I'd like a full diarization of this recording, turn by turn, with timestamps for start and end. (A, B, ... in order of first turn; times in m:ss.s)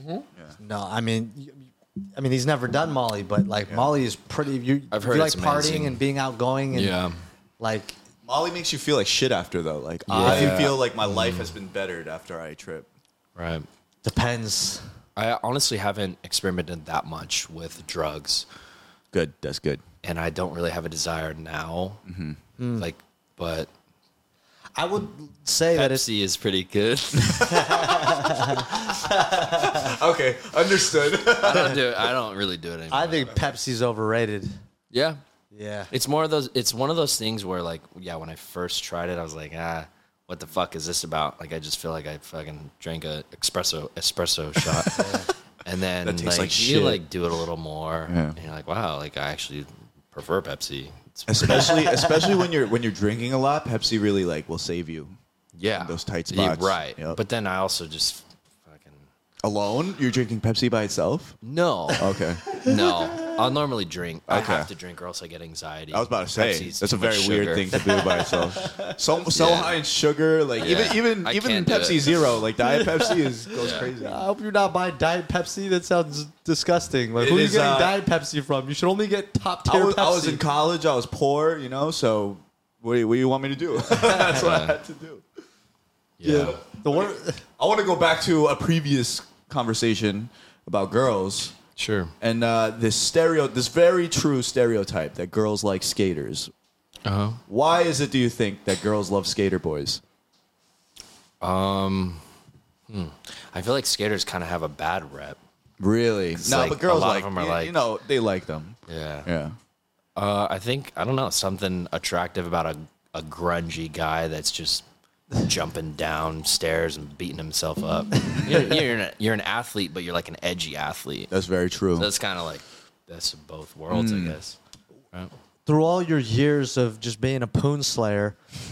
0:00.6-0:06.9 A
0:04.9-0:06.0 B
0:06.7-0:07.2 B
0:07.6-0:08.0 A
0:08.2-0:12.9 C
0:10.1-0:11.5 B
0:10.1-0:10.6 A
0:13.4-0:13.7 B
0:14.0-0:14.8 A
0:15.2-0:18.4 B
0:19.1-0:19.8 C
0:20.0-0:22.0 B
0:22.1-0:22.4 C
0:22.6-0:22.9 A
0:22.8-0:23.7 B
0:24.8-0:26.0 A
0:25.7-0:28.0 B
0:27.2-0:32.1 C
0:27.4-0:29.9 A
0:31.4-0:33.3 B
0:32.9-0:34.6 A
0:34.9-0:35.2 B
0:35.5-0:35.9 A
0:35.9-0:51.9 B
0:44.6-0:45.1 C
0:45.0-0:45.3 A
0:46.0-0:47.0 C
0:48.1-0:48.4 C
0:51.3-0:55.2 C
0:51.5-0:52.3 A
0:55.6-0:59.1 B
0:55.8-0:57.2 C
0:59.4-1:01.4 C
1:01.4-1:08.1 B
1:02.0-1:02.4 C
1:04.3-1:04.7 C
1:05.9-1:14.2 C
1:08.2-1:08.9 A
1:09.2-1:09.8 B
1:10.6-1:12.2 B
1:12.6-1:13.3 A
1:13.5-1:13.9 B
1:14.0-1:20.4 A
1:17.2-1:18.0 C
1:19.6-1:25.2 C
1:24.0-1:24.8 B
1:26.2-1:26.6 B
1:26.2-1:27.4 A
1:26.4-1:31.6 C
1:31.8-1:32.1 B
1:32.2-1:36.5 C
1:37.0-1:37.4 B
1:37.5-1:40.0 C
1:41.4-1:42.2 B
1:42.9-1:45.4 B
1:45.8-1:49.6 C
1:46.4-1:47.8 B
1:48.9-1:49.3 B
1:50.2-1:54.9 B
1:55.4-2:01.3 B
2:01.3-2:02.1 C
2:01.9-2:04.6 B
2:03.9-2:04.4 C
2:05.6-2:08.4 A